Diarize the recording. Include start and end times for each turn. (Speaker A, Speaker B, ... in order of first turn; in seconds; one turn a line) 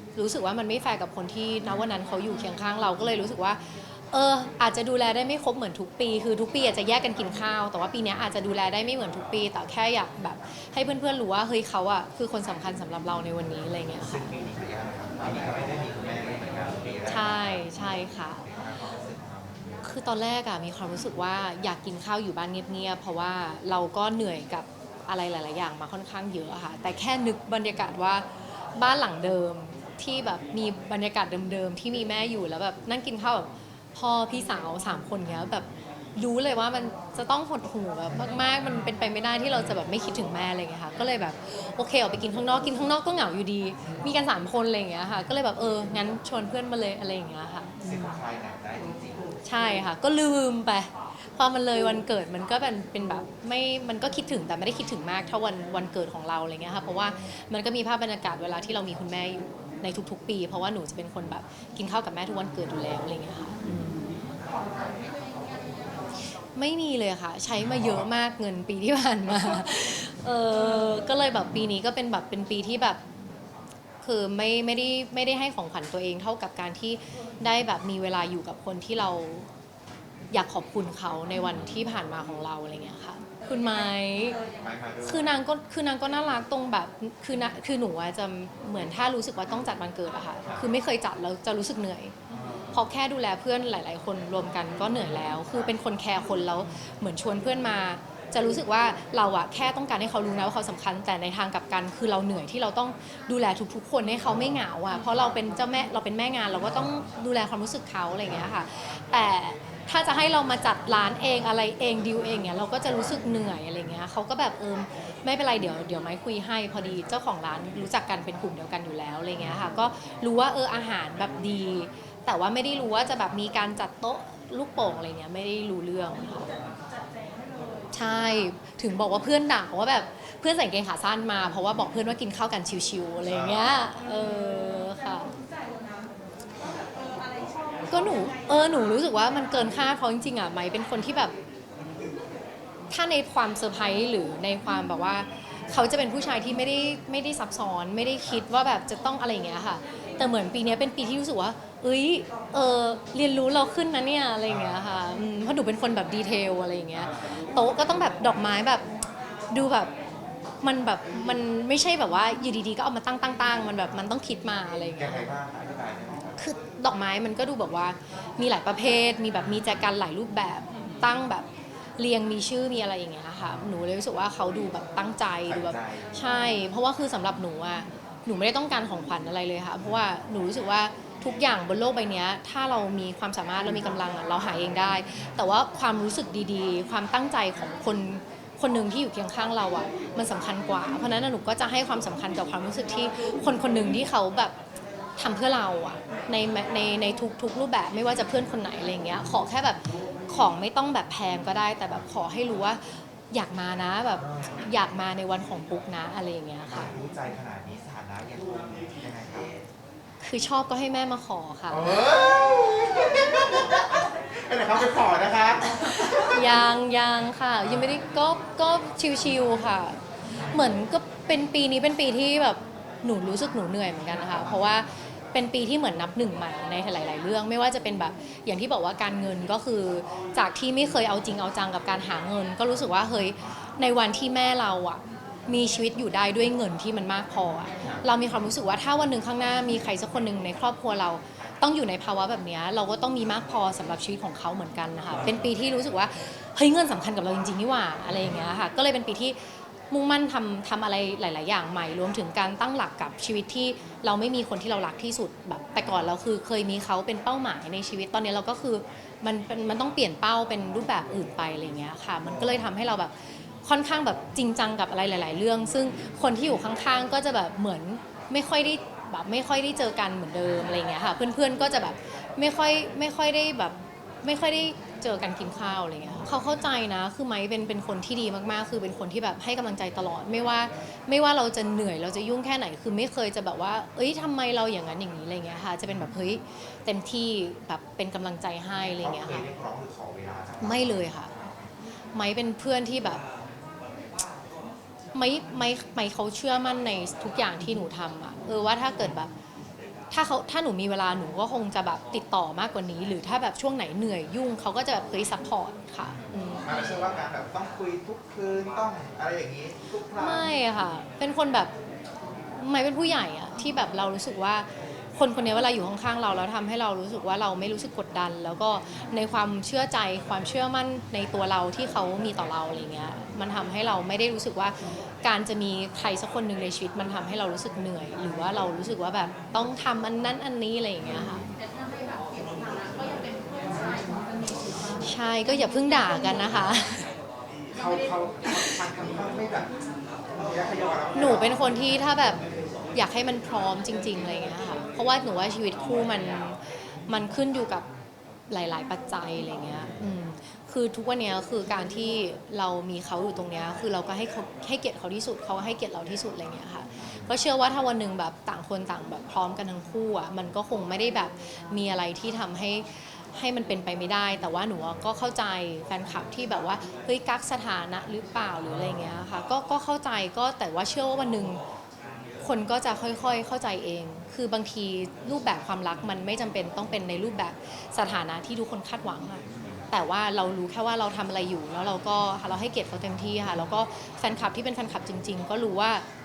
Speaker A: 0.1-14.3
Speaker B: 14.0-17.8
Speaker A: 17.1-18.4
Speaker B: 18.4-19.8
Speaker A: 19.8-48.2
Speaker B: 47.8-49.4
Speaker A: 49.4-64.1
Speaker A: 66.5-73.0
Speaker A: 74.0-79.5
Speaker A: 80.3-84.4
Speaker B: 84.6-85.3
Speaker A: 85.0-92.1
Speaker A: 92.7-126.5
Speaker A: 127.9-135.3
Speaker A: 137.9-141.3
Speaker A: 142.9-158.8
Speaker B: 154.5-154.8
Speaker A: 159.5-159.9
Speaker A: 160.6-165.3
Speaker B: 164.9-166.4
Speaker A: 166.4-171.5
Speaker A: 172.0-194.6
Speaker B: 175.5-176.1
Speaker A: 195.2-206.9
Speaker B: 206.7-209.6
Speaker A: 210.2-211.9
Speaker B: 211.7-216.4
Speaker A: 216.0-249.4
Speaker A: 249.9-289.5
Speaker B: 289.0-291.6
Speaker A: 290.6-291.3
Speaker A: 292.1-293.2
Speaker A: 295.1-299.3
Speaker A: 300.1-306.8
Speaker B: 306.6-310.5
Speaker A: 310.1-311.7
Speaker A: 312.6-331.4
Speaker A: 334.9-337.1
Speaker B: 337.7-339.7
Speaker B: 340.4-341.7
Speaker A: 341.1-342.4
Speaker A: 342.9-347.9
Speaker A: 348.5-371.6
Speaker A: 372.4-386.0